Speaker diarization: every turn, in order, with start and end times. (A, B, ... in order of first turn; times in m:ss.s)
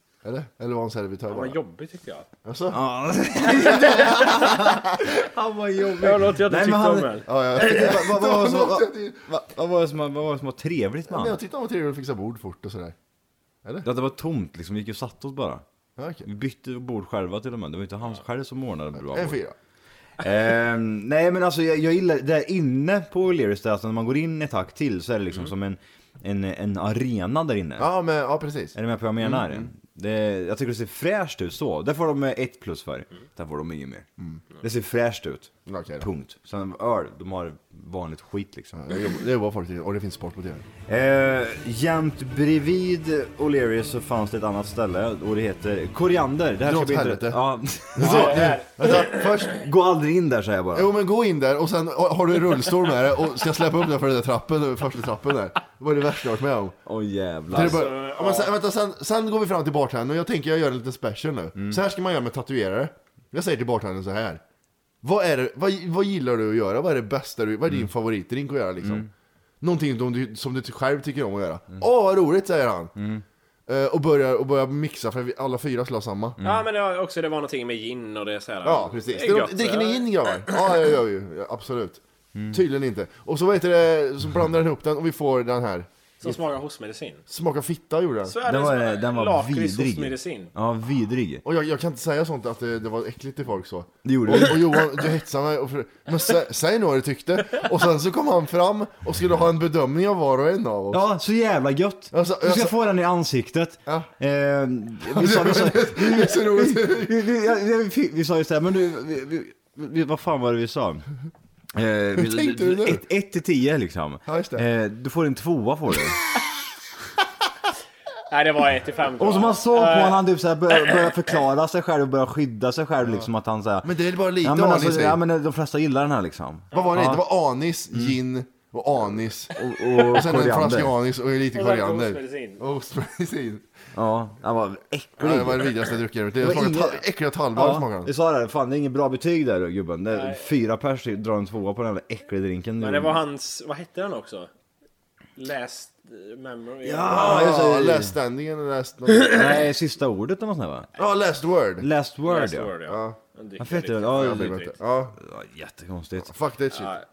0:00.2-0:01.6 A
0:01.3-0:02.3 B
0:02.4-0:02.8 A
0:02.7-0:11.4 C
0:03.4-0:05.0 A
0:06.0-0:07.3 B
0:07.2-0:09.3 A
0:11.1-0:12.9 A
0:13.8-0:15.6 C
0:16.0-0:16.2 A
0:16.2-0:19.4 C
0:19.0-0:19.5 A
0:20.2-0:27.9 C
0:27.8-0:29.7 A
0:28.7-0:34.0 C
0:34.6-0:38.8 C
0:35.6-0:36.1 A
0:38.7-0:40.6 A
0:40.9-0:50.9 C
0:46.6-0:47.4 A
0:47.9-0:49.6 A
0:48.0-0:49.2 B
0:50.7-0:56.8 A
0:56.8-0:57.9 C
0:57.5-1:04.4 A
0:57.5-0:58.5 B
1:01.6-1:01.8 C
1:05.0-1:09.1 A
1:08.8-1:09.1 C
1:09.6-1:13.0 A
1:13.0-1:13.2 C
1:13.7-1:16.4 A
1:16.4-1:16.6 C
1:16.4-1:20.5 B
1:18.6-1:26.4 A
1:22.3-1:22.6 C
1:26.2-1:27.2 B
1:27.3-1:28.4 A
1:28.2-1:30.5 B
1:28.4-1:31.4 C
1:31.4-1:41.0 A
1:34.0-1:34.9 C
1:40.9-1:51.0 C
1:42.1-1:42.7 A
1:45.1-1:47.2 A
1:51.7-1:56.2 C
1:52.2-1:53.0 A
1:54.2-1:54.6 A
1:58.3-2:00.2 B
1:59.2-2:03.9 C
2:03.8-2:05.2 A
2:04.4-2:07.2 C
2:06.7-2:13.6 A
2:09.5-2:10.9 C
2:11.5-2:12.6 B
2:13.9-2:15.7 C
2:15.2-2:18.1 A
2:16.4-2:23.2 C
2:20.1-2:20.4 B
2:22.8-2:24.5 B
2:25.4-2:27.5 B
2:26.8-2:28.1 C
2:27.1-2:29.6 A
2:29.2-2:30.9 C
2:31.0-2:31.9 A
2:31.8-2:32.7 C
2:32.2-2:34.7 B
2:32.9-2:33.2 A
2:33.6-2:34.6 C
2:34.1-2:35.2 A
2:35.2-2:36.3 C
2:36.2-2:36.9 A
2:36.7-2:37.0 B